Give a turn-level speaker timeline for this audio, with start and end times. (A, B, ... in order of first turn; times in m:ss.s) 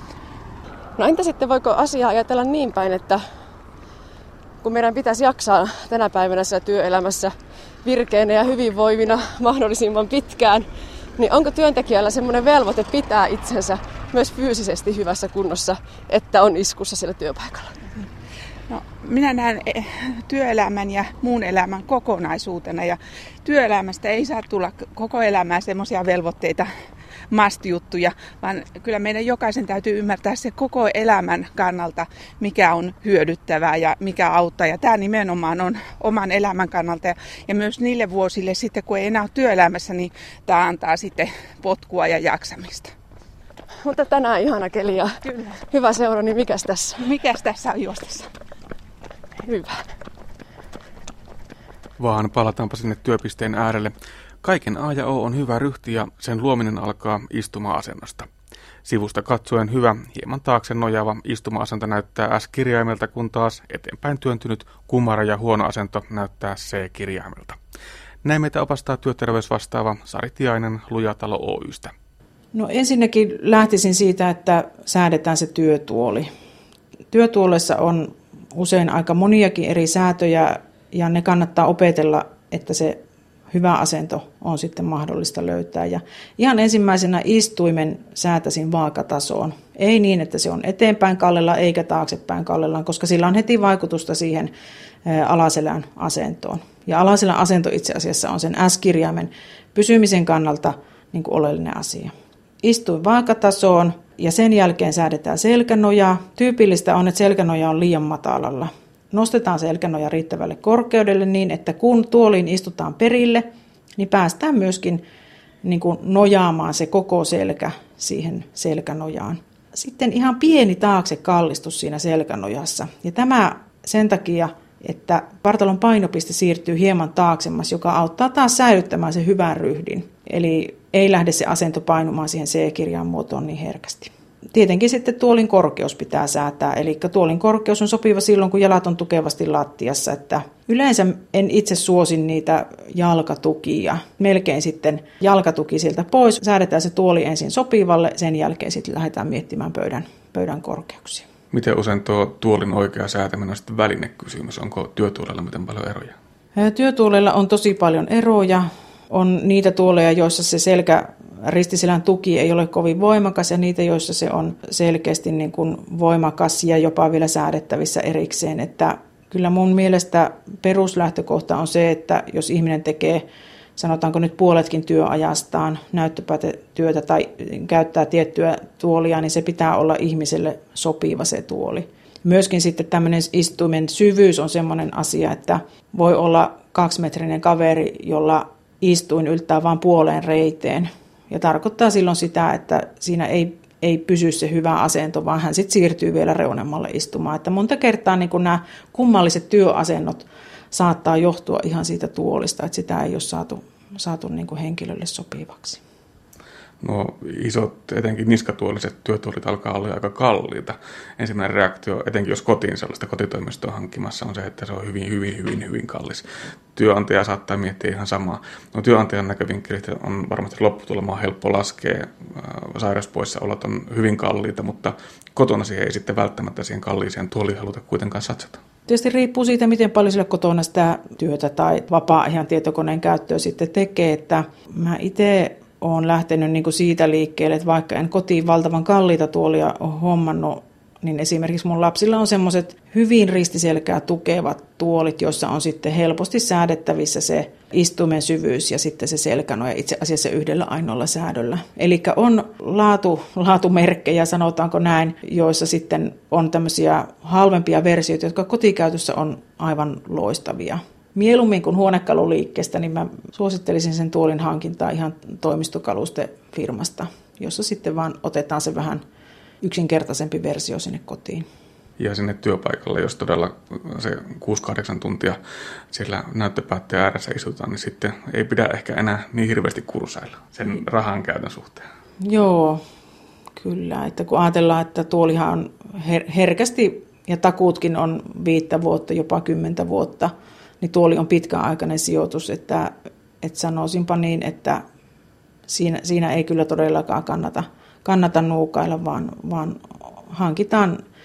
0:01.0-0:03.2 A
0:04.6-0:07.3 A
0:07.8-0:10.6 A
0:11.2-0:17.8 A
0:18.7-0:26.7 B
0:27.3-0:42.9 B
0:43.8-0:45.2 A
0:45.2-0:45.5 B
0:45.7-0:47.0 A
0:47.0-0:48.3 B
0:49.4-0:49.8 A
0:52.0-0:58.3 C
0:58.8-1:07.6 C
1:08.2-1:11.9 C
1:12.5-1:16.3 D
1:17.1-1:23.0 D
1:23.5-1:34.5 D
1:35.0-1:42.1 D
1:42.6-1:53.4 D
1:54.0-1:55.0 D
1:55.6-2:31.3 D
2:31.5-2:36.1 C
2:36.6-2:53.2 D
2:53.8-3:25.8 D
3:26.8-3:36.2 C
3:36.7-3:48.6 C
3:48.9-4:29.0 D
4:29.6-4:31.4 D
4:32.0-4:35.4 C
4:35.9-4:41.8 C
4:42.2-4:42.8 D
4:43.6-4:54.8 D
4:55.7-5:01.0 D